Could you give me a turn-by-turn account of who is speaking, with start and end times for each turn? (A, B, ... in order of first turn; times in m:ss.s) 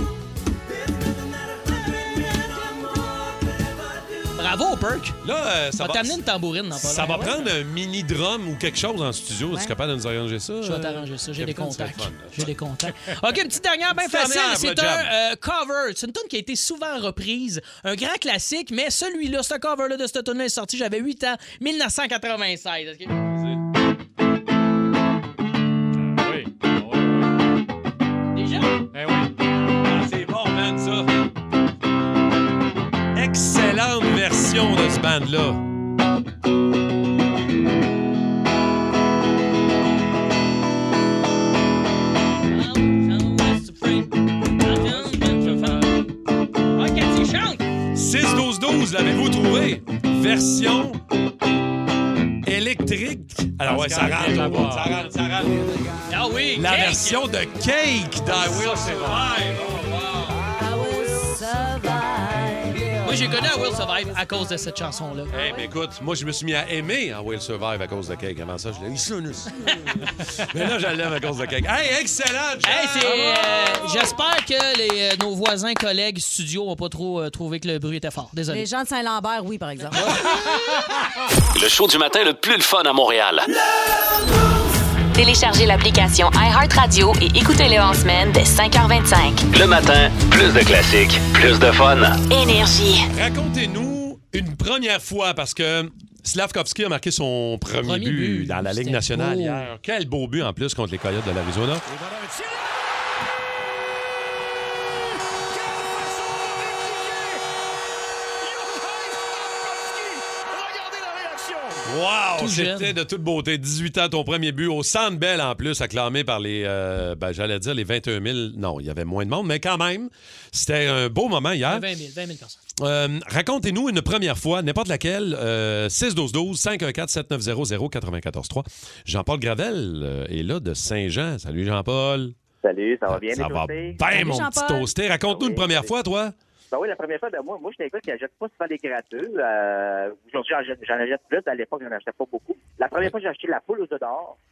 0:04.3-0:05.2 A
0:05.2-0:06.2 B
0:05.8-0:07.4 A
0:06.7-0:12.5 B
0:10.6-0:23.2 A
0:13.9-0:15.1 B
0:23.3-0:23.6 B
0:26.0-0:27.3 C
0:28.3-0:28.8 A
0:28.9-0:29.3 C
0:29.8-0:31.1 B
0:33.1-0:35.6 B
0:42.5-0:46.0 A
0:44.7-0:46.0 C
0:46.7-0:47.6 A
0:47.9-0:51.0 B
0:52.4-0:55.9 B
0:53.6-0:55.0 C
0:56.1-0:57.2 A
0:56.5-1:00.5 B
0:58.2-0:59.3 C
1:00.4-1:03.0 D
1:03.0-1:05.3 A
1:05.3-1:13.7 B
1:05.4-1:05.6 D
1:12.6-1:18.6 A
1:18.5-1:20.1 D
1:21.5-1:23.5 E
1:25.1-1:29.4 F
1:29.5-1:32.2 E
1:32.3-1:33.1 F
1:33.1-1:41.8 B
1:37.8-1:39.7 A
1:41.9-1:42.5 C
1:45.8-1:46.9 C
1:48.6-1:49.2 C
1:49.9-1:51.6 C
1:51.8-2:01.8 B
1:52.4-1:52.9 A
2:01.6-2:02.6 A
2:02.8-2:12.3 B
2:12.6-2:14.0 G
2:13.1-2:16.3 B
2:14.1-2:14.9 D
2:15.2-2:15.9 G
2:16.7-2:24.4 G